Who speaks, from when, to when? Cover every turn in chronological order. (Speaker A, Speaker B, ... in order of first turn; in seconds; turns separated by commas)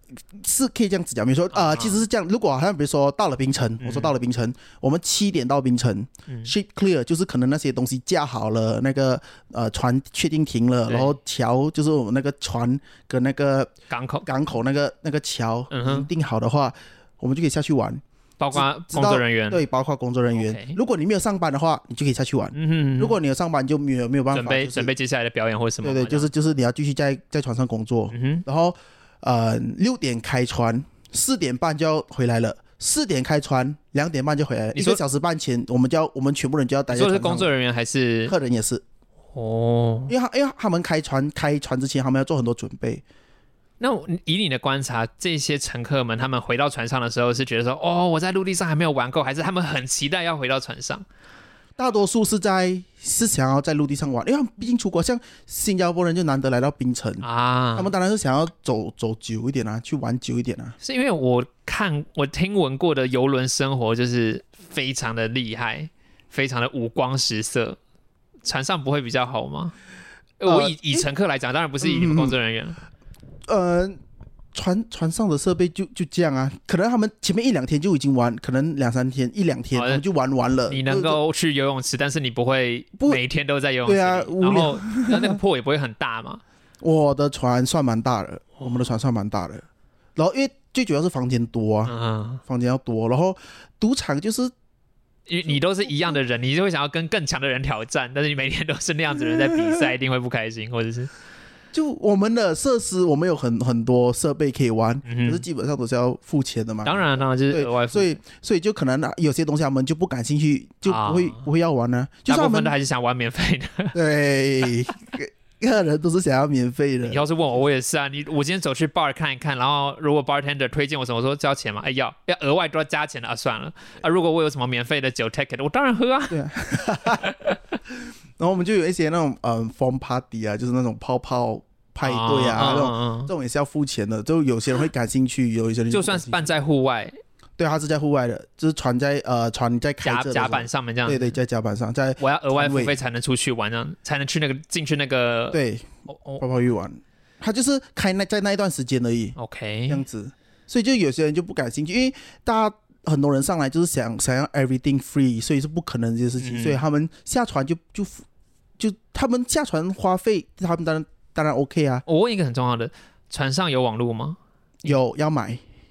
Speaker A: 0.3-13.7, Speaker B: 1.5-2.0, Speaker B: 3.8-4.1, Speaker B: 10.9-11.2, Speaker B: 13.9-14.3, Speaker A: 14.2-24.9, Speaker B: 15.7-16.1, Speaker B: 18.4-19.6, Speaker B: 20.3-20.8, Speaker B: 22.5-23.2, Speaker B: 24.3-26.3, Speaker A: 25.8-37.5, Speaker B: 28.1-28.4, Speaker B: 34.8-35.0, Speaker B: 36.9-38.4, Speaker A: 38.3-38.8, Speaker B: 39.4-40.1, Speaker A: 40.1-43.0, Speaker B: 43.8-51.0, Speaker A: 51.8-60.8, Speaker B: 57.2-57.9, Speaker B: 60.8-67.8, Speaker B: 68.5-69.8, Speaker B: 70.4-72.8, Speaker A: 70.5-71.1, Speaker A: 71.8-72.4, Speaker A: 73.5-74.0, Speaker A: 74.5-81.2, Speaker B: 79.7-80.0, Speaker B: 80.7-86.4, Speaker A: 83.8-85.4, Speaker A: 86.8-91.9, Speaker B: 91.9-92.4, Speaker A: 92.5-94.5, Speaker B: 95.3-101.1, Speaker A: 99.5-99.9, Speaker A: 101.7-112.7, Speaker B: 105.0-105.4, Speaker B: 106.8-108.2, Speaker B: 110.8-111.5, Speaker B: 112.3-114.0, Speaker A: 113.9-117.2, Speaker B: 117.1-126.4, Speaker A: 126.3-127.3, Speaker B: 127.0-127.6, Speaker A: 127.9-136.4, Speaker B: 132.0-133.3, Speaker B: 135.9-137.2, Speaker A: 137.6-142.9, Speaker B: 140.0-141.3, Speaker B: 142.2-146.4, Speaker A: 145.5-149.4, Speaker B: 149.4-150.0, Speaker A: 149.9-158.2, Speaker B: 156.4-156.8, Speaker A: 158.8-162.1, Speaker B: 162.1-164.4, Speaker A: 164.8-165.6